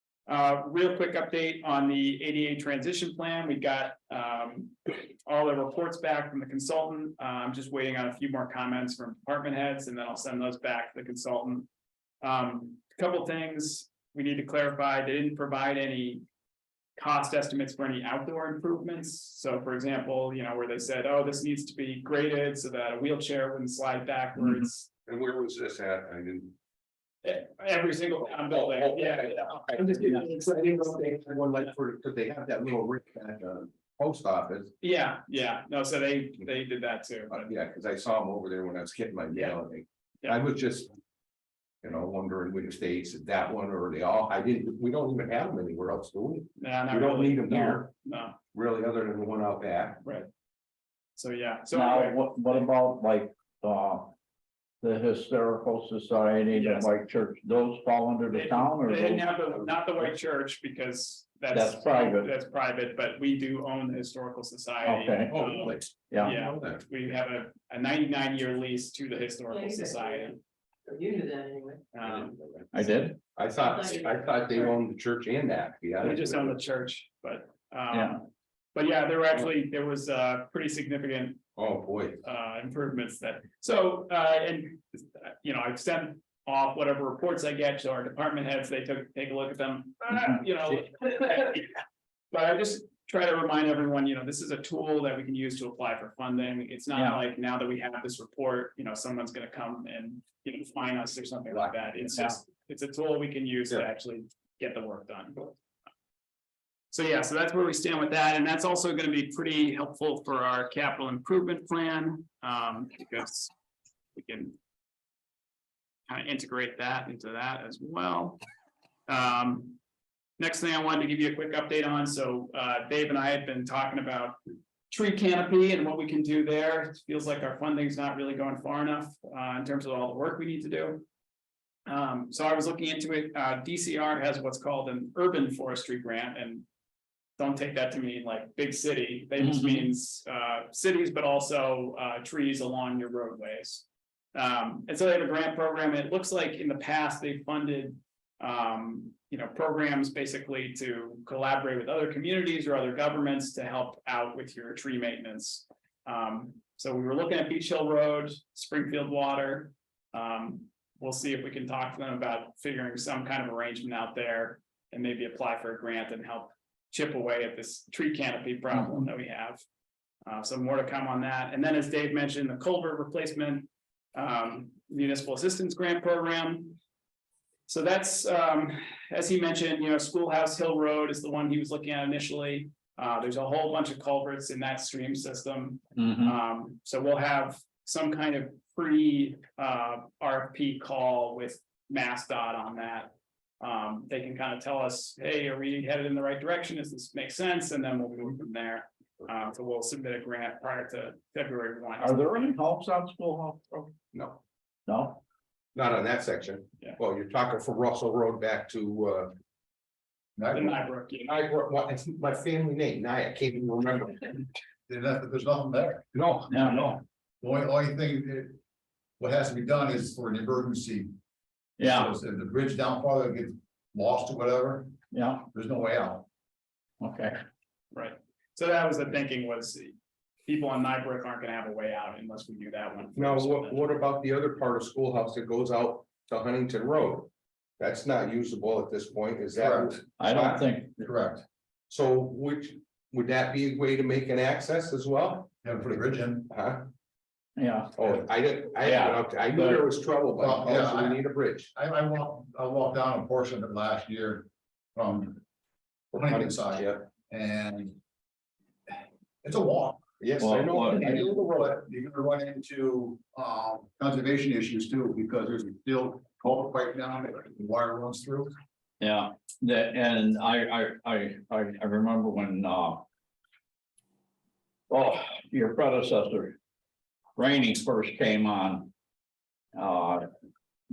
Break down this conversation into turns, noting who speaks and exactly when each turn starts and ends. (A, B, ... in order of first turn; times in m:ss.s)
0:00.3-0:11.7 A
0:12.2-0:16.2 A
0:17.0-0:24.9 A
0:24.4-0:24.6 B
0:25.1-0:26.5 C
0:27.2-0:30.2 A
0:28.5-0:34.7 C
0:34.8-0:37.5 A
0:37.3-0:40.9 C
0:39.3-0:39.6 A
0:41.8-0:47.9 C
0:46.6-0:48.4 A
0:48.5-0:50.0 C
0:50.0-0:50.3 A
0:51.2-0:52.2 A
0:51.7-0:54.2 B
0:54.8-0:59.3 B
0:56.5-0:56.9 A
0:58.3-1:10.4 A
1:01.5-1:02.3 B
1:04.8-1:05.4 B
1:05.3-1:06.8 C
1:06.1-1:06.4 B
1:09.5-1:10.3 D
1:10.9-1:11.9 D
1:11.9-1:12.4 A
1:12.1-1:12.7 C
1:12.7-1:13.2 B
1:13.4-1:16.5 C
1:13.6-1:14.5 D
1:16.0-1:21.4 A
1:17.9-1:18.2 B
1:21.6-1:22.2 C
1:22.2-1:31.7 A
1:30.2-1:30.4 B
1:32.3-1:45.5 A
1:36.9-1:37.2 B
1:42.1-1:42.4 B
1:46.9-1:53.5 A
1:54.1-1:54.6 A
1:56.1-1:58.4 A
1:59.1-1:59.8 A
2:00.4-2:04.4 A
2:04.9-2:11.0 A
2:11.8-2:16.6 A
2:17.4-2:49.6 A
2:19.4-2:19.9 B
2:48.7-2:49.1 B
2:50.2-2:56.8 A
2:57.7-3:22.6 A
3:06.0-3:06.4 B
3:22.0-3:23.9 B
3:24.1-3:24.4 C
3:24.9-3:25.2 B
3:25.7-3:29.3 C
3:30.4-3:30.8 E
3:30.5-3:31.4 A
3:31.2-3:34.5 C
3:34.9-3:36.2 E
3:36.1-3:36.5 C
3:36.5-3:37.0 B
3:36.8-3:38.6 E
3:39.2-3:41.1 E
3:41.8-3:42.1 B
3:41.8-3:44.9 E
3:45.1-3:45.4 B
3:45.5-3:46.2 E
3:47.0-3:47.4 B
3:47.9-3:49.9 A
3:50.4-3:53.9 A
3:53.2-4:00.6 C
3:59.5-4:00.0 E
4:00.2-4:01.1 B
4:01.0-4:01.4 E
4:01.9-4:05.5 C
4:05.6-4:06.5 E
4:06.5-4:06.9 C
4:07.6-4:08.1 B
4:08.0-4:11.7 C
4:08.8-4:09.8 B
4:10.4-4:15.4 E
4:16.1-4:18.0 E
4:16.3-4:17.0 C
4:18.9-4:20.0 E
4:20.2-4:21.4 C
4:20.4-4:21.2 B
4:20.7-4:28.5 E
4:29.0-4:33.0 B
4:34.9-4:36.6 B
4:37.4-4:38.9 B
4:39.7-4:40.3 B